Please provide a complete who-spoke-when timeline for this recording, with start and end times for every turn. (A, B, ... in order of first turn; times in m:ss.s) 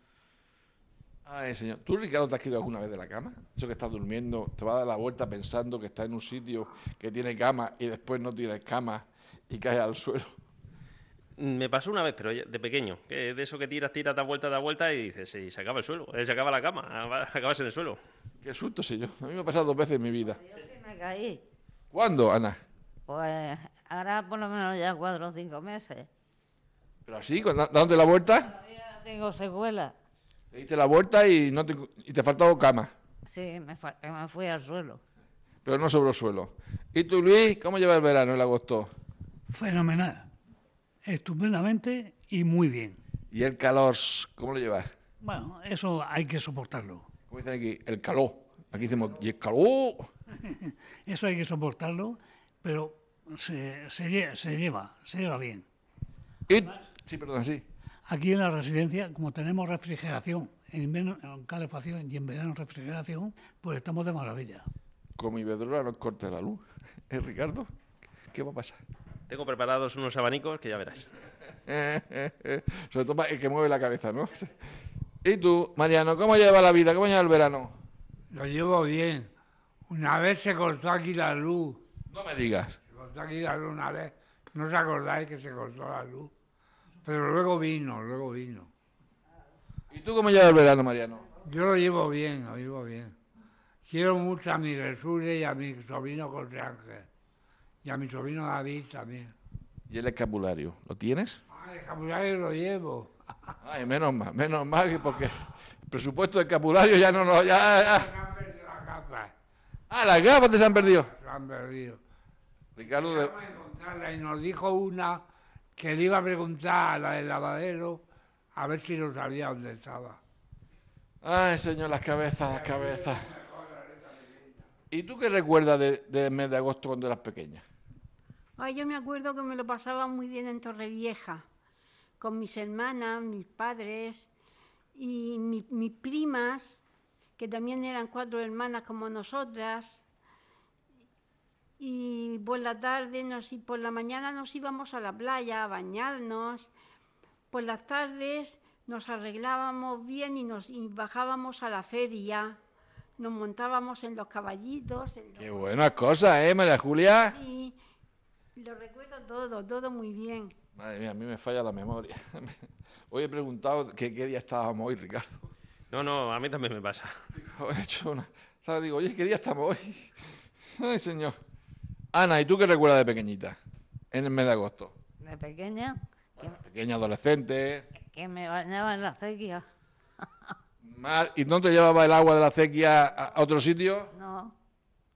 0:01.3-0:10.3 A
0:11.4-0:18.0 B
0:18.4-0:20.4 A
0:20.3-0:21.4 C
0:21.9-0:22.6 A
0:23.1-0:26.1 C
0:27.1-0:28.5 A
0:28.5-0:29.9 C
0:30.5-0:32.9 A
0:33.3-0:35.0 C
0:35.6-0:38.9 A
0:39.5-0:40.3 D
0:41.0-0:43.0 D
0:43.3-0:44.9 A
0:45.2-0:47.1 D
0:47.3-0:50.1 A
0:50.4-0:55.7 D
0:56.5-0:57.6 A
0:56.6-0:56.9 D
0:58.1-1:04.7 D
1:05.2-1:07.7 A
1:08.3-1:08.8 A
1:09.3-1:11.1 B
1:11.7-1:14.5 A
1:15.2-1:17.8 A
1:18.3-1:19.3 E
1:19.9-1:21.8 E
1:22.1-1:22.8 A
1:22.9-1:26.3 E
1:27.0-1:28.7 E
1:29.9-1:31.3 A
1:31.4-1:33.2 E
1:33.9-1:37.1 E
1:37.8-1:39.3 E
1:39.9-1:41.4 A
1:41.5-1:43.1 E
1:43.6-1:48.1 A
1:47.4-1:49.3 E
1:49.9-1:51.1 A
1:50.9-1:52.0 E
1:52.8-1:53.3 A
1:52.9-1:55.2 E
1:55.8-2:00.2 E
2:01.2-2:03.3 A
2:02.4-2:04.7 E
2:04.9-2:07.6 A
2:08.6-2:11.4 F
2:12.2-2:14.3 F
2:15.0-2:16.8 F
2:17.4-2:20.0 F
2:21.8-2:26.7 F
2:27.5-2:32.6 F
2:33.2-2:35.8 F
2:35.4-2:37.4 A
2:37.3-2:37.8 F
2:38.6-2:40.5 F
2:40.8-2:42.6 A
2:43.1-2:45.4 A
2:45.9-2:47.1 B
2:47.3-2:50.2 A
2:50.8-2:51.4 A
2:52.1-2:53.6 A
2:54.1-2:54.9 A
2:55.2-2:56.4 C
2:56.4-2:57.9 A
2:58.0-2:59.6 C
3:00.8-3:04.1 A
3:04.1-3:04.6 C